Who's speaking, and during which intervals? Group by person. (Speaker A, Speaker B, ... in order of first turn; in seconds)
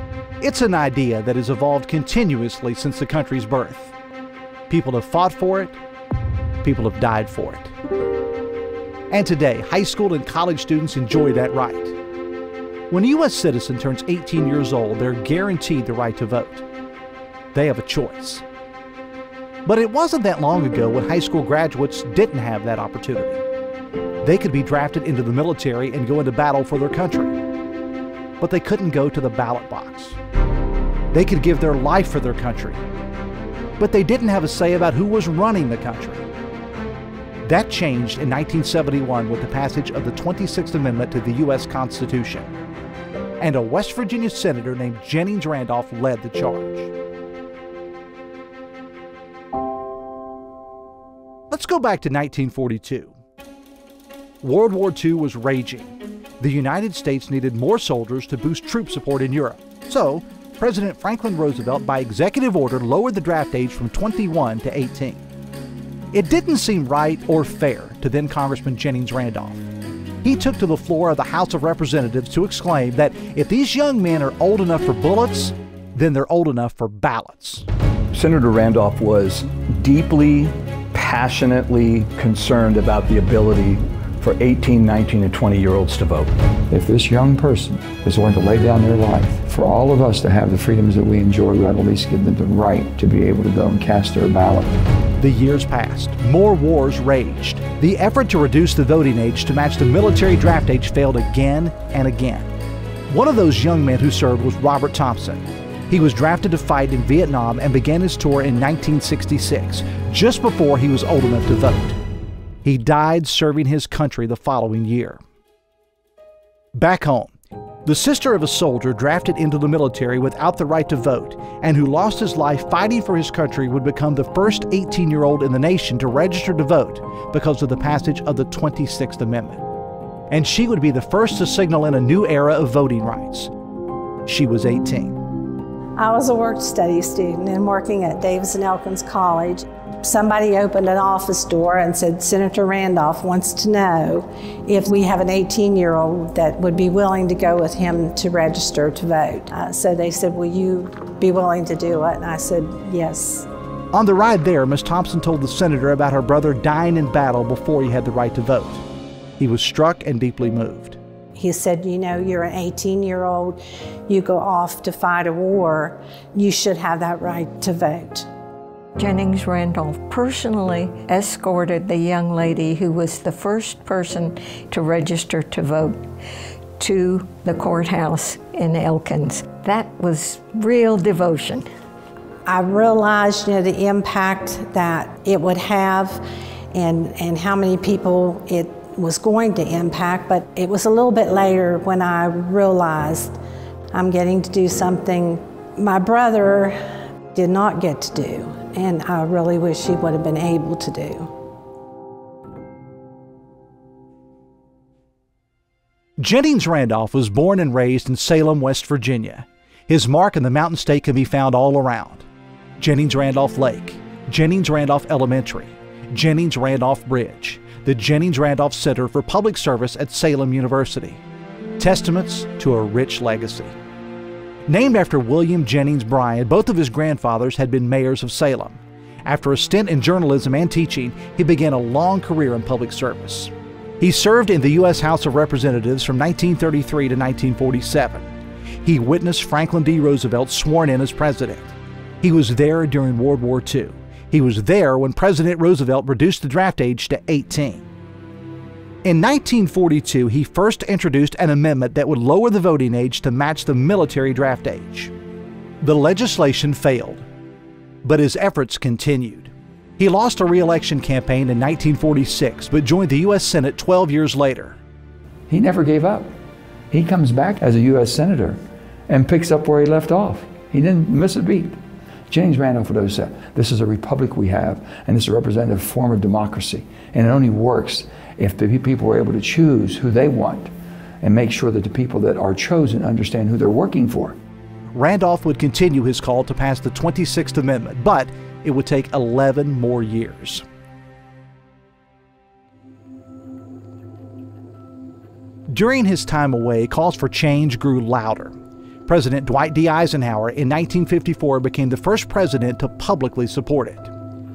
Speaker A: 0.4-3.9, 4.7-5.8, 6.6-7.7, 9.1-11.9, 12.9-16.6, 17.5-18.4, 19.6-23.4, 24.2-27.4, 28.4-30.2, 31.1-32.8, 33.8-36.3, 37.4-42.5, 43.4-46.9, 51.5-53.1, 54.4-65.2, 66.1-69.7, 70.2-77.7, 95.2-102.5, 103.1-112.0, 112.6-115.2, 116.8-117.3, 117.8-129.6, 130.3-133.5, 134.2-135.2, 153.9-158.8, 159.4-161.0, 206.2-212.2, 212.8-221.2, 221.8-223.8, 224.7-238.3, 238.8-247.8, 249.0-255.1, 255.8-257.2, 258.0-264.8, 284.9-290.6, 295.7-298.5, 299.1-304.1
Speaker B: 78.1-86.3
Speaker C: 86.7-94.7, 265.5-266.3, 266.9-271.8, 272.3-284.4
Speaker D: 136.0-153.5, 161.3-168.2, 182.4-186.2, 186.7-193.4, 193.9-196.8, 197.3-201.3
Speaker E: 169.0-176.0, 176.8-181.7